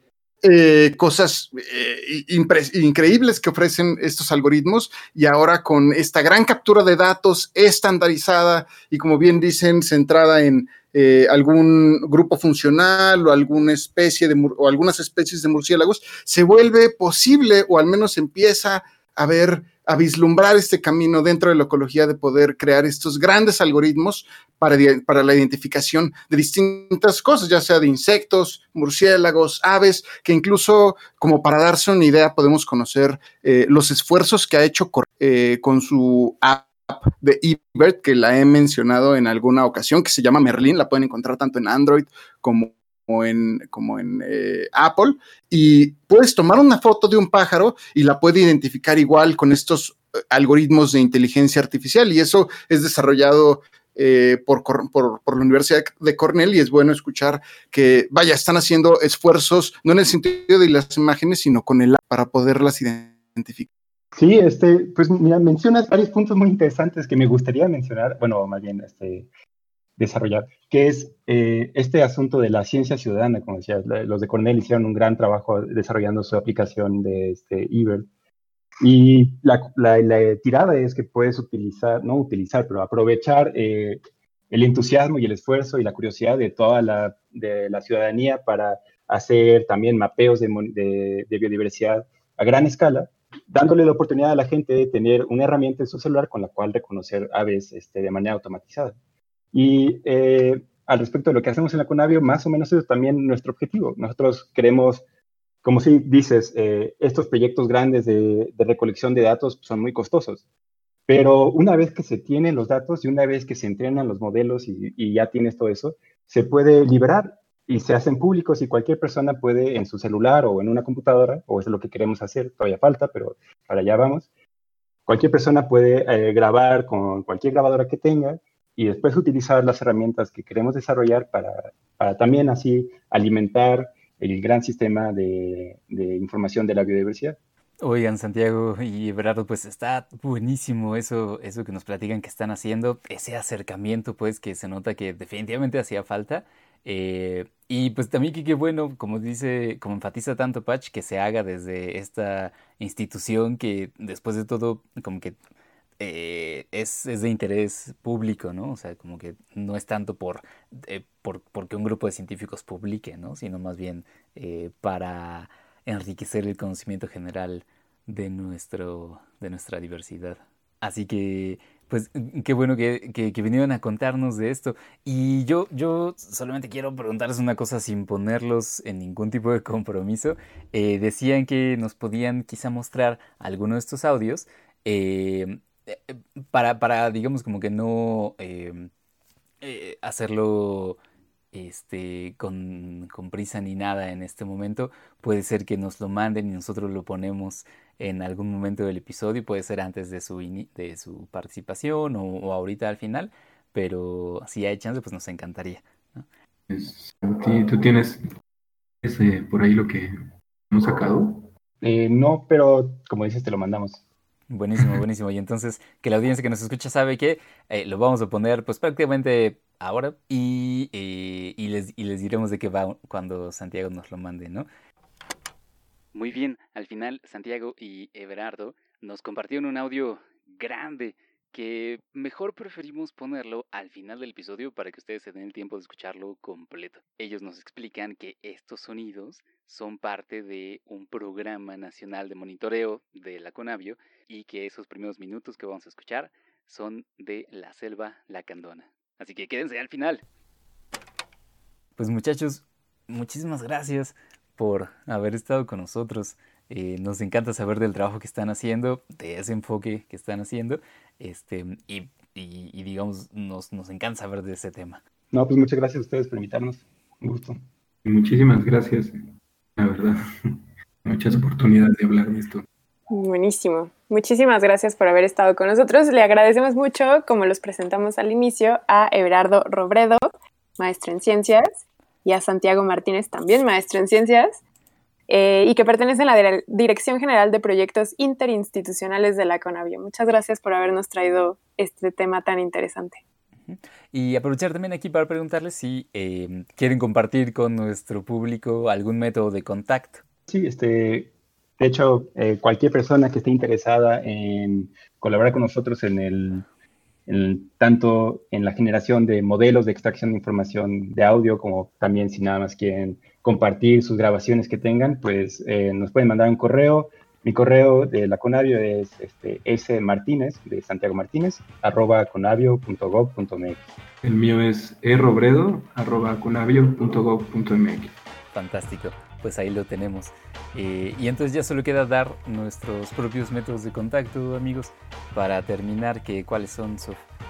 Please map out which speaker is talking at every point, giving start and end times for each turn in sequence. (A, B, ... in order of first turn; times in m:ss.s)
0:00.4-1:03.7 A
1:04.2-1:09.3 B
1:10.0-1:18.1 B
1:18.8-1:24.0 B
1:24.5-1:39.0 B
1:39.5-1:45.0 B
1:45.6-1:50.4 B
1:51.1-2:04.3 B
2:05.1-2:17.4 B
2:17.8-2:35.4 C
2:36.0-3:08.9 C
3:09.6-3:11.0 C
3:11.5-3:26.3 C
3:26.7-3:28.2 D
3:29.0-3:30.1 D
3:30.7-3:31.5 D
3:31.8-3:34.0 B
3:34.5-3:44.7 C
3:46.1-4:10.2 C
4:12.0-4:25.0 C
4:25.3-4:27.6 B
4:28.0-4:29.2 D
4:29.8-4:32.6 D
4:33.1-4:41.7 E
4:42.2-4:44.6 E
4:45.3-4:53.2 E
4:53.7-5:00.2 C
5:00.5-5:06.7 B
5:07.3-5:23.9 B
5:24.2-5:28.1 D
5:28.5-5:37.2 C